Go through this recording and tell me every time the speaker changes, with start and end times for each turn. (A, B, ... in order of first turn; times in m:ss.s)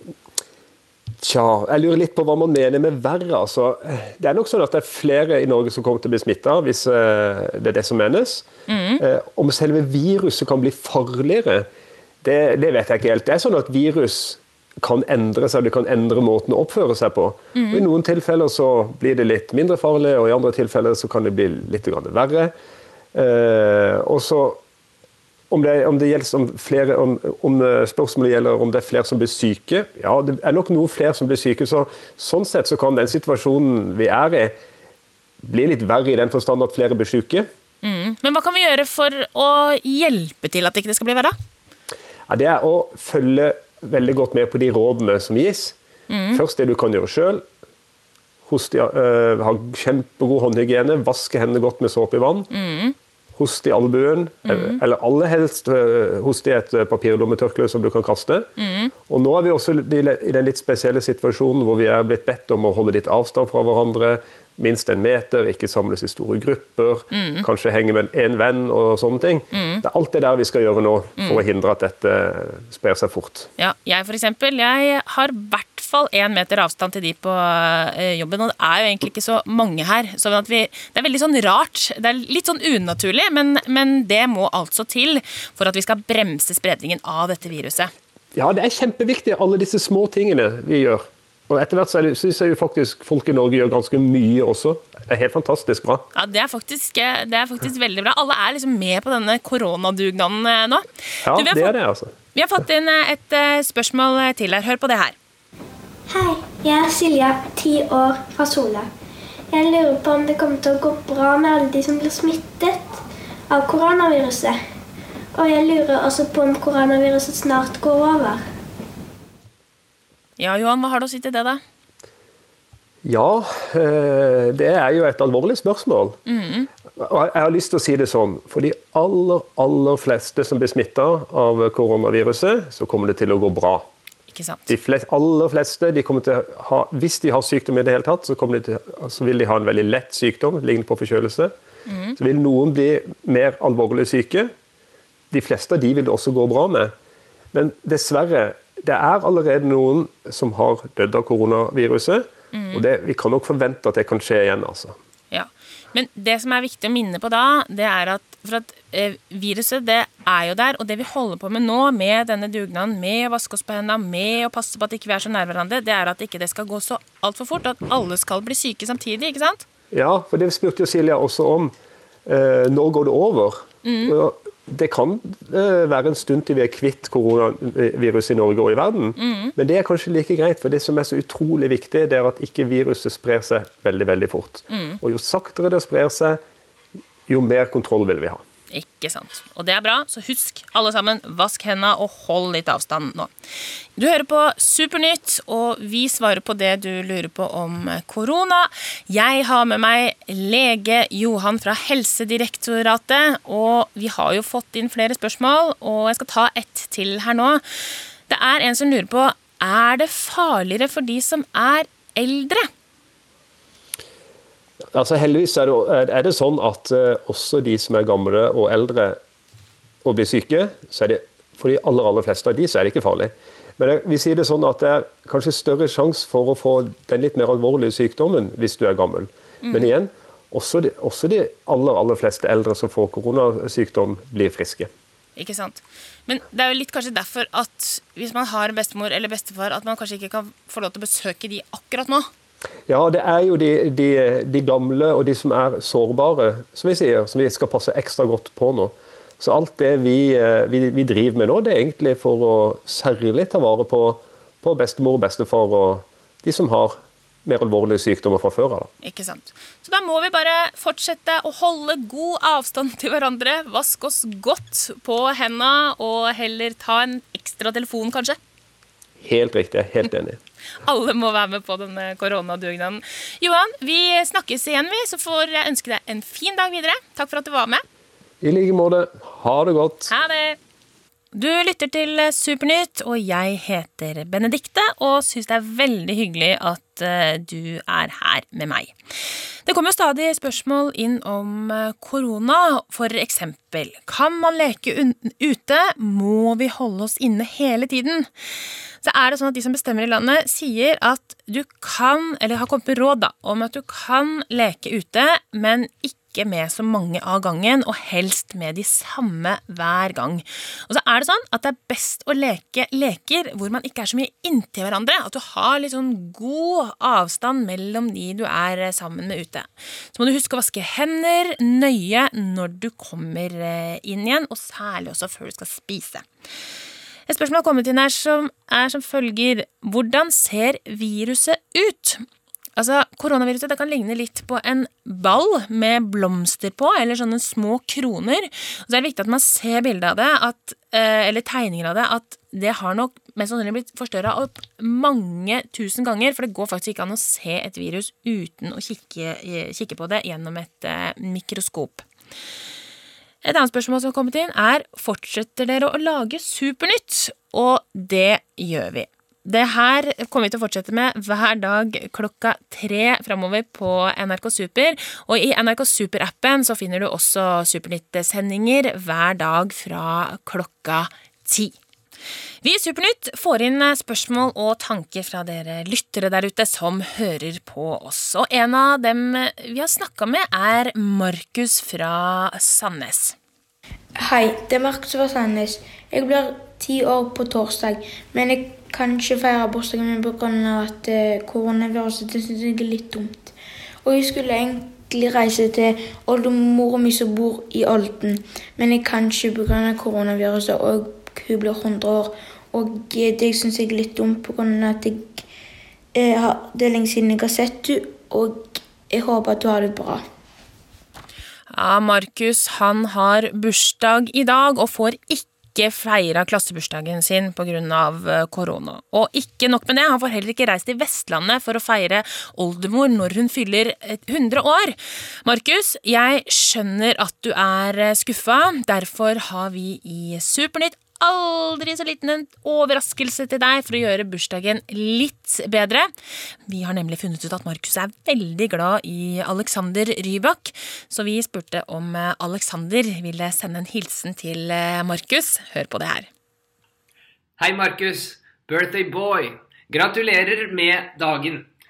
0:01.2-0:08.5 A
0:08.7-0:09.0 B
0:09.0-0:11.7 A
0:12.2-0:22.5 A
0:17.6-0:17.8 B
0:23.1-0:24.6 A
0:25.5-0:34.6 A
0:35.4-0:37.5 A
0:37.8-0:41.3 B
0:42.3-0:45.8 A
0:46.1-0:46.4 B
0:46.3-0:47.4 A
0:48.5-0:52.5 A
0:52.5-0:53.0 B
0:53.4-0:58.5 A
0:54.5-0:54.8 B
0:58.6-0:58.9 B
0:59.1-1:13.5 A
1:07.1-1:07.5 B
1:09.5-1:09.8 B
1:13.6-1:27.9 B
1:28.4-1:36.0 A
1:36.1-1:41.8 B
1:41.2-1:42.1 A
1:42.3-1:45.2 B
1:46.1-1:48.9 C
1:49.5-1:53.0 C
1:53.5-1:54.6 C
1:55.4-1:58.4 C
2:00.4-2:01.6 B
2:03.0-2:06.2 A
2:06.3-2:06.7 B
2:07.0-2:13.9 A
2:14.3-2:14.7 B
2:14.7-2:21.5 A
2:21.9-2:22.2 B
2:22.2-2:24.5 A
2:25.3-2:26.9 A
2:27.5-2:35.0 A
2:32.5-2:32.8 B
2:35.3-2:49.6 B
2:49.9-2:51.7 A
2:52.3-3:06.4 A
2:53.8-2:54.2 B
2:59.2-2:59.5 B
3:04.7-3:05.0 B
3:07.3-3:08.4 A
3:08.7-3:13.3 B
3:14.0-3:27.6 B
3:28.3-3:32.7 B
3:35.0-3:39.2 A
3:40.0-3:54.9 A
3:49.6-3:49.9 B
3:55.4-4:02.3 B
4:02.9-4:18.9 A
4:19.0-4:28.4 B
4:29.2-4:30.4 A
4:30.8-4:37.8 B
4:38.4-4:40.1 A
4:40.1-4:40.6 B
4:41.3-4:48.9 B
4:49.7-4:58.3 B
4:59.0-5:26.2 B
5:27.3-5:32.2 B
5:32.8-5:52.1 B
5:53.4-6:11.8 B
6:12.6-6:23.4 B
6:24.2-6:33.5 D
6:34.0-6:45.4 D
6:46.2-6:50.2 D
6:51.7-7:16.1 B
7:16.7-7:26.3 B
7:27.6-7:31.7 E